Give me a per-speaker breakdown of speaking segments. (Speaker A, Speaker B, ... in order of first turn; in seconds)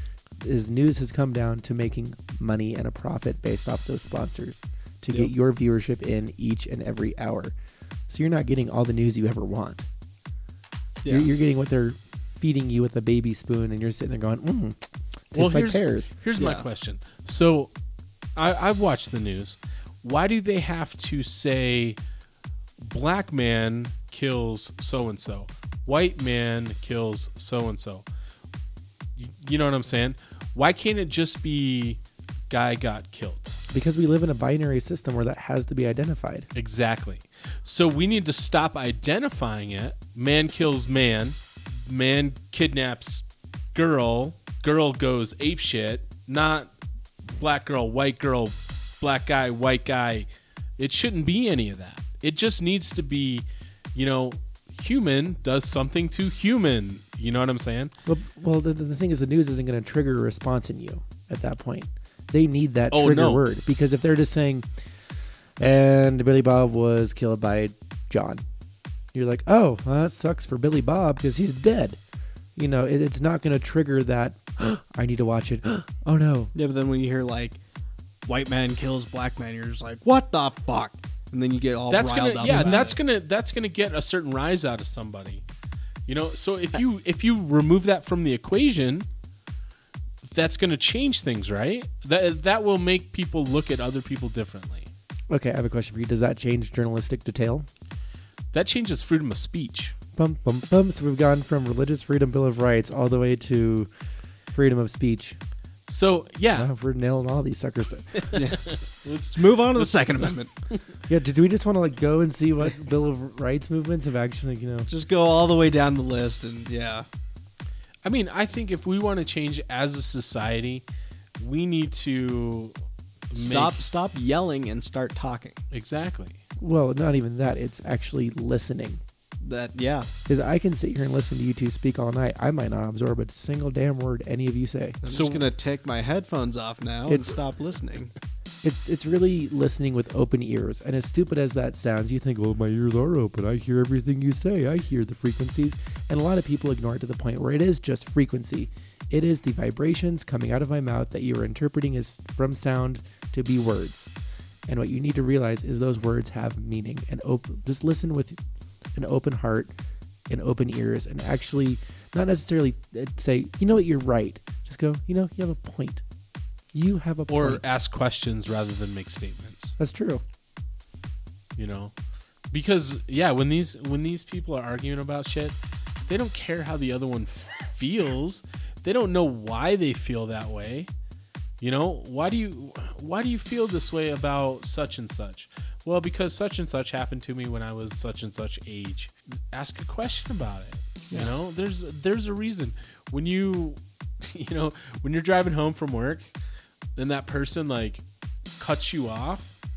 Speaker A: 0.4-7.5, 8.1-9.9, 11.1-14.8, 15.3-16.1, 33.7-36.5, 58.0-64.7, 65.6-68.4, 69.1-72.0, 72.5-76.5, 82.4-82.9, 95.3-97.7, 100.2-103.9, 104.5-105.4, 106.5-108.3, 111.1-114.9, 126.6-129.0, 130.3-135.0, 137.1-137.3, 138.6-154.1, 154.7-158.4, 158.9-159.7, 160.3-166.0, 166.7-167.6, 169.8-170.2
Speaker B: 11.0-11.3, 16.4-16.6, 76.5-77.6, 78.2-83.0, 108.3-110.5, 114.9-117.0, 123.3-125.6, 129.4-130.1, 135.0-138.1
Speaker C: 15.3-17.7, 18.4-22.0, 22.8-28.0, 29.1-32.0, 32.5-33.6, 36.5-46.7, 47.3-57.9, 62.9-63.4, 81.9-85.4, 86.1-89.1, 90.2-94.9, 98.5-99.9, 105.9-106.7, 108.2-110.8, 118.0-120.8, 121.4-122.8, 123.3-123.8, 125.7-126.4, 135.1-135.4, 167.3-169.8, 171.6-171.9, 172.5-180.9, 181.6-196.3, 196.9-198.0, 198.6-199.5